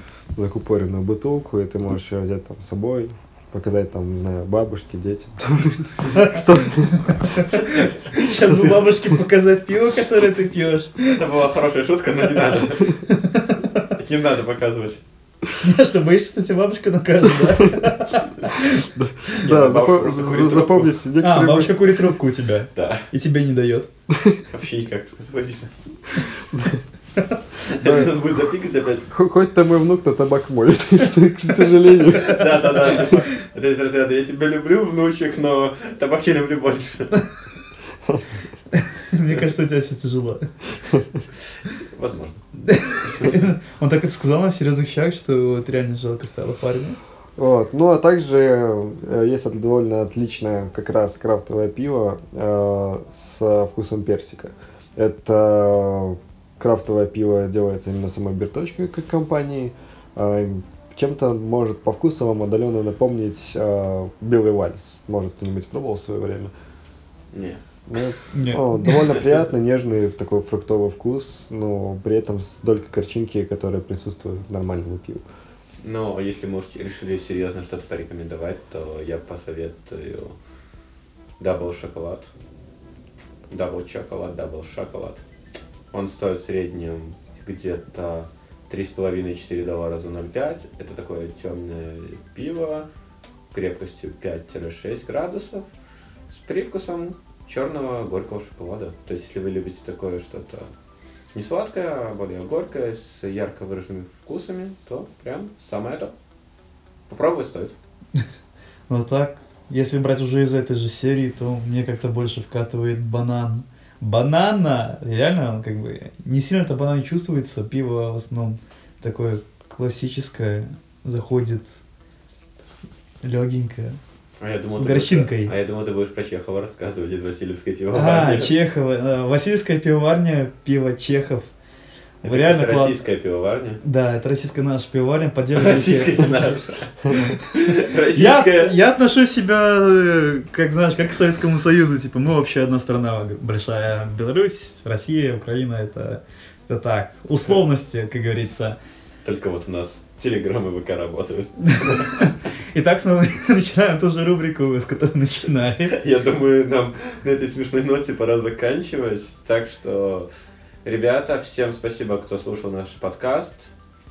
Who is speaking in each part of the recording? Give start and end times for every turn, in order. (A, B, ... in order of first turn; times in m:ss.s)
0:00.4-0:07.3 A
0:06.1-0:11.2 B
0:07.6-0:07.9 C
0:08.2-0:09.2 A
0:11.0-0:13.0 C
0:13.1-0:13.9 B
0:14.0-0:15.0 C
0:15.6-0:18.9 B
0:17.4-0:17.9 A
0:18.9-0:22.0 A
0:19.4-0:20.9 C
0:21.2-0:23.9 B
0:22.8-0:23.1 C
0:24.1-0:24.4 A
0:24.5-0:25.7 C
0:26.5-0:26.8 A
0:27.7-0:29.1 C
0:27.8-0:28.2 A
0:29.1-0:33.2 A
0:32.1-0:37.2 C
0:38.7-0:40.5 B
0:41.7-0:42.4 C
0:42.6-0:47.0 B
0:43.0-0:43.3 C
0:47.4-1:06.5 A
1:07.3-1:07.6 C
1:07.9-1:15.2 A
1:08.3-1:09.0 B
1:15.8-1:20.4 C
1:21.4-1:22.3 C
1:23.5-1:25.2 C
1:25.9-1:32.9 C
1:33.5-1:35.7 C
1:36.3-1:40.7 C
1:41.3-1:46.1 C
1:47.1-1:47.7 C
1:48.9-2:01.8 B
2:03.2-2:04.0 B
2:04.4-2:08.5 C
2:04.8-2:05.5 B
2:07.9-2:11.5 B
2:12.2-2:12.9 B
2:12.2-2:13.8 C
2:13.8-2:28.8 B
2:15.5-2:18.8 C
2:17.1-2:17.3 A
2:29.2-2:32.3 C
2:31.7-2:36.0 B
2:35.9-2:40.3 C
2:40.8-2:43.7 C